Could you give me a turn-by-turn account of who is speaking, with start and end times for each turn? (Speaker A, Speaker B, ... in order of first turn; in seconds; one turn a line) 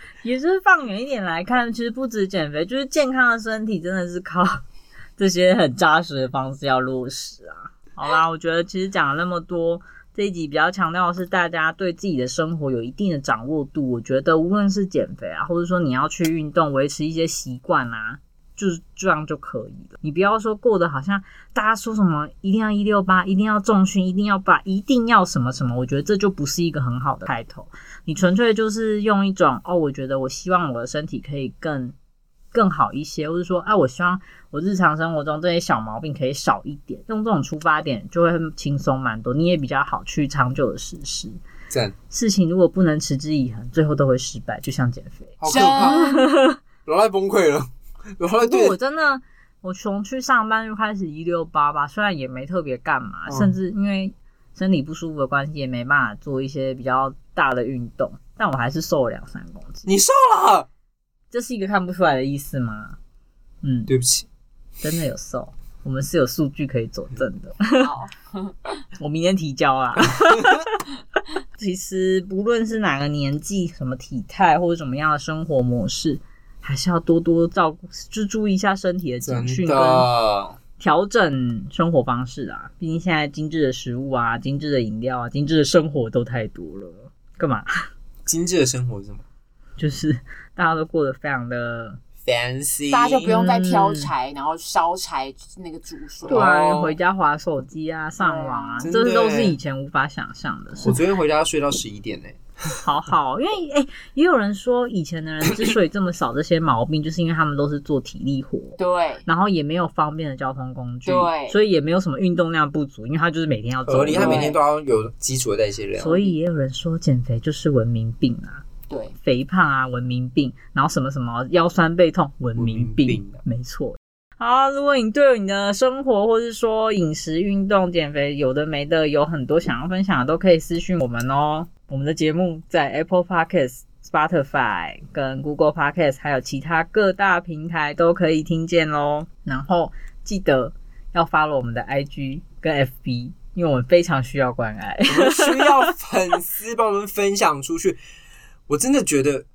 Speaker A: 0.2-4.6
Speaker A: 5.2-31.9
Speaker A: 32.5-41.4
Speaker B: 41.7-41.9
Speaker A: 42.1-46.6
Speaker B: 45.4-46.0
Speaker C: 45.5-46.3
Speaker B: 46.9-48.8
Speaker A: 48.4-59.9
Speaker B: 53.3-53.6
Speaker B: 59.9-60.7
Speaker A: 61.3-63.0
Speaker A: 63.6-63.9
Speaker B: 63.9-64.3
Speaker A: 64.8-67.9
Speaker C: 67.8-68.6
Speaker A: 69.0-70.8
Speaker A: 71.6-80.1
Speaker B: 79.2-80.6
Speaker A: 80.8-87.8
Speaker B: 88.2-89.2
Speaker A: 89.8-92.0
Speaker B: 92.2-93.3
Speaker C: 92.9-96.4
Speaker A: 93.2-94.1
Speaker B: 96.3-97.0
Speaker A: 96.3-101.0
Speaker C: 98.2-98.9
Speaker B: 98.8-99.6
Speaker B: 100.8-102.4
Speaker A: 102.8-114.5
Speaker C: 108.8-109.2
Speaker C: 111.1-111.6
Speaker B: 113.9-116.3
Speaker C: 114.1-114.6
Speaker A: 116.0-118.6
Speaker A: 119.2-145.9
Speaker B: 122.6-123.4
Speaker B: 145.1-148.0
Speaker B: 148.7-149.4